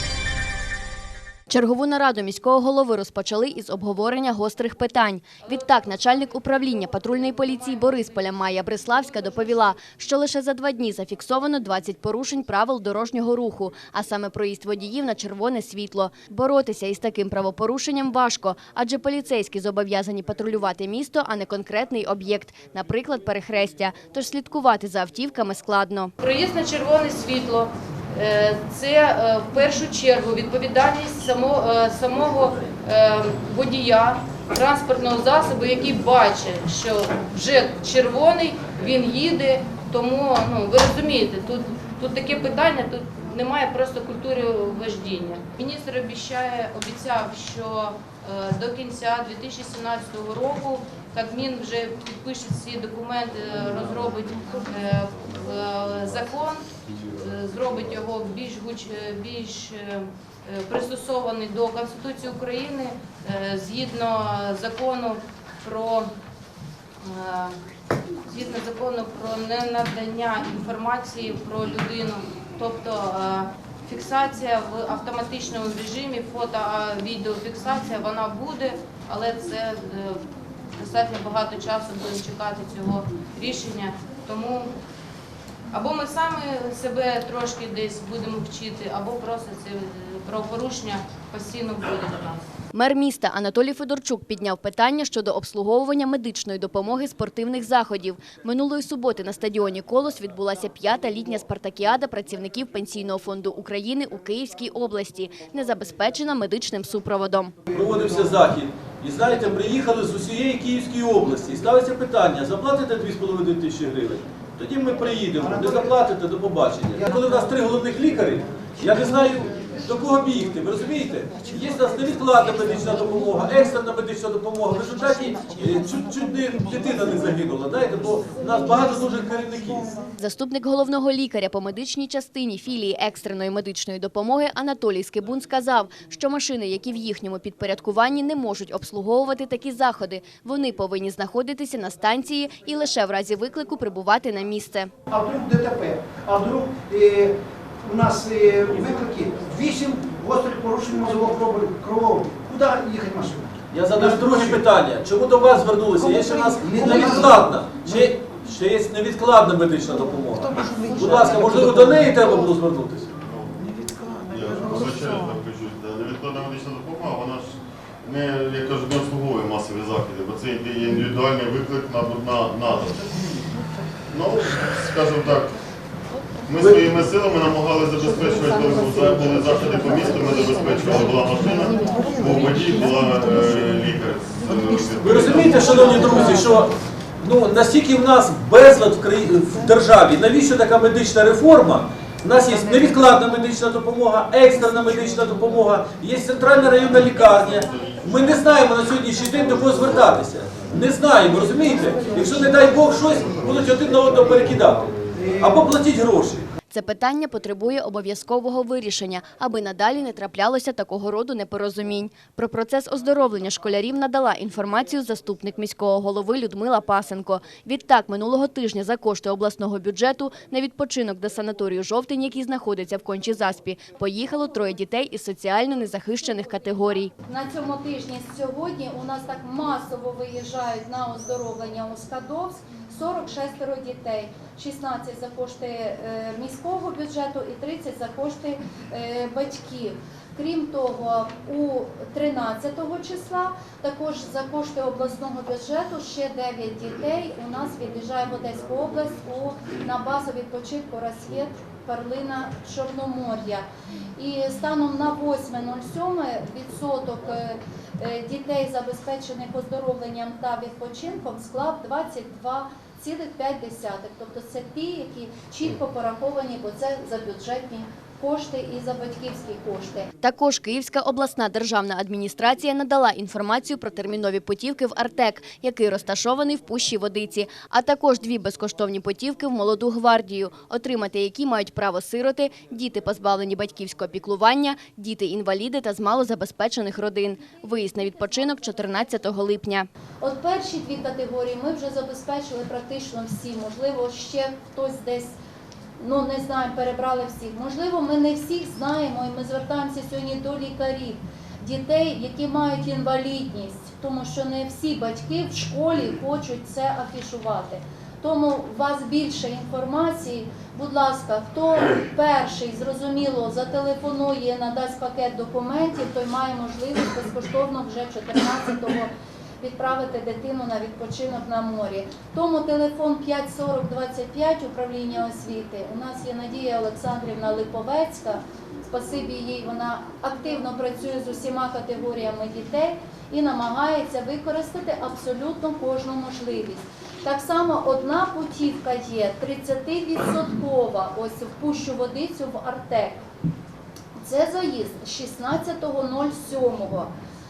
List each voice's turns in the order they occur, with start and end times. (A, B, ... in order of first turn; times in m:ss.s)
0:01.5-0:26.1 A
0:05.6-0:08.0 B
0:26.2-1:06.1 B
1:07.0-1:07.6 B
1:08.3-1:20.2 B
1:20.8-1:24.7 B
1:25.7-1:32.4 B
1:32.7-1:47.6 A
1:47.7-2:09.9 C
1:47.7-1:48.4 D
1:55.4-1:56.1 D
1:56.9-1:57.5 D
2:10.2-2:24.9 A
2:25.1-2:34.6 D
2:33.7-2:43.2 C
2:36.5-2:38.0 D
2:43.2-2:43.7 E
2:44.3-2:53.1 E
2:54.1-2:55.5 E
2:56.5-3:06.5 E
3:05.0-3:24.9 C
3:17.6-3:18.4 E
3:25.1-3:25.8 D
3:25.4-3:26.4 C
3:26.7-3:47.1 A
3:47.2-4:13.6 F
4:14.2-4:30.1 F
4:30.2-4:49.9 A
4:50.2-4:55.4 F
4:56.0-5:43.2 F
5:44.2-5:47.1 F